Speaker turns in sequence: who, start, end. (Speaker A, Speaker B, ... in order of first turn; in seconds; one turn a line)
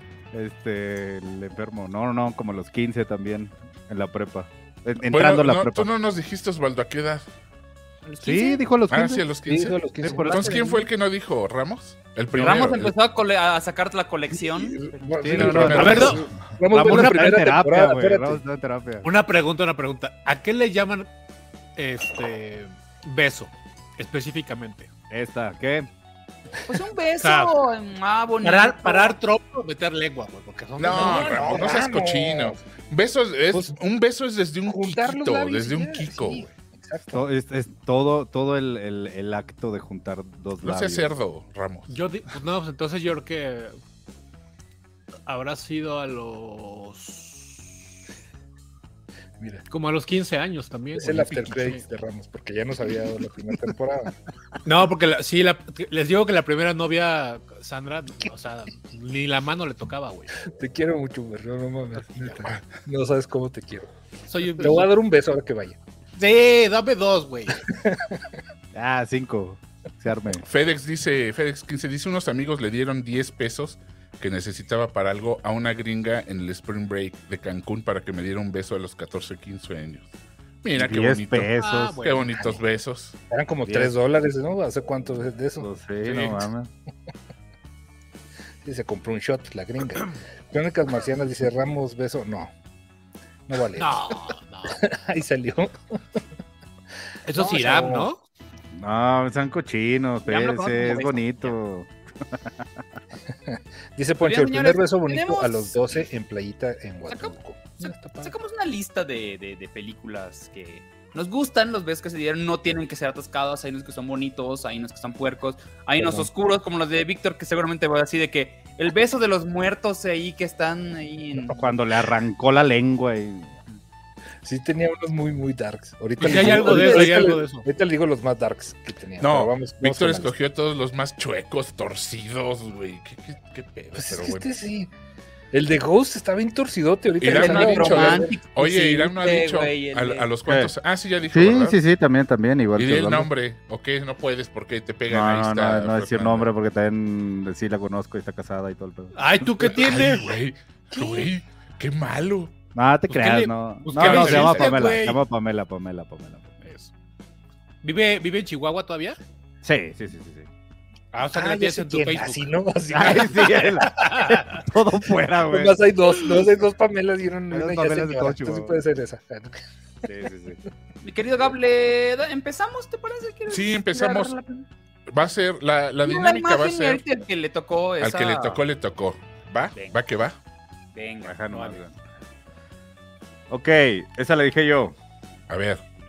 Speaker A: 0.3-5.9
Speaker B: 5.1-7.3
Speaker C: 8.1-8.6
Speaker A: 8.2-9.2
Speaker B: 8.9-12.9
Speaker D: 9.5-10.7
Speaker A: 10.0-10.6
Speaker C: 12.4-14.8
Speaker D: 14.6-18.4
Speaker A: 15.2-19.1
Speaker B: 15.3-16.4
Speaker E: 15.7-16.3
Speaker E: 16.9-17.3
Speaker E: 19.0-21.1
Speaker E: 21.8-24.9
Speaker A: 25.1-25.9
Speaker C: 26.7-29.2
Speaker E: 27.2-27.6
Speaker E: 28.4-31.9
Speaker B: 30.8-36.5
Speaker D: 30.9-32.6
Speaker D: 34.7-37.2
Speaker A: 37.1-41.1
Speaker B: 40.6-42.0
Speaker E: 41.9-43.8
Speaker E: 45.3-47.8
Speaker D: 49.4-49.6
Speaker E: 49.7-51.8
Speaker D: 51.0-54.1
Speaker E: 54.6-60.3
Speaker D: 60.5-63.9
Speaker E: 62.1-62.4
Speaker E: 64.3-64.9
Speaker D: 64.5-65.8
Speaker E: 66.2-67.6
Speaker D: 67.7-68.2
Speaker A: 68.7-70.4
Speaker B: 70.5-80.1
Speaker B: 80.6-81.5
Speaker A: 80.8-82.0
Speaker E: 81.6-82.3
Speaker B: 82.0-83.2
Speaker D: 83.3-86.3
Speaker A: 83.7-83.9
Speaker A: 85.6-86.7
Speaker B: 86.0-86.4
Speaker D: 88.6-92.5
Speaker D: 93.5-94.1
Speaker E: 93.8-94.8
Speaker D: 94.7-96.0
Speaker E: 97.3-98.2
Speaker D: 97.4-98.1
Speaker A: 98.7-102.7
Speaker C: 100.3-101.6
Speaker D: 103.5-108.3
Speaker C: 104.2-106.0
Speaker C: 107.1-121.6
Speaker D: 116.0-116.3
Speaker A: 121.5-123.5
Speaker D: 124.4-130.3
Speaker E: 126.2-127.7
Speaker B: 129.2-134.5
Speaker D: 134.0-134.9
Speaker D: 135.5-138.4
Speaker B: 137.2-141.8
Speaker C: 137.3-140.3
Speaker A: 140.5-140.7
Speaker A: 141.3-143.3
Speaker B: 142.8-146.5
Speaker A: 145.1-149.1
Speaker E: 149.2-150.3
Speaker B: 149.7-152.5
Speaker E: 151.0-151.3
Speaker A: 152.8-156.8
Speaker E: 153.1-155.2
Speaker B: 153.9-154.9
Speaker E: 157.8-159.2
Speaker A: 159.6-160.5
Speaker E: 161.1-164.6
Speaker D: 161.3-164.1
Speaker A: 162.9-165.8
Speaker D: 165.5-170.1
Speaker A: 167.5-168.8
Speaker A: 170.1-170.6
Speaker C: 171.0-174.7
Speaker B: 173.5-174.3
Speaker B: 175.1-177.0
Speaker C: 176.0-178.6
Speaker B: 178.0-180.4
Speaker C: 180.9-181.4
Speaker A: 181.2-181.9
Speaker E: 181.5-181.8
Speaker A: 183.5-184.9
Speaker B: 185.5-185.8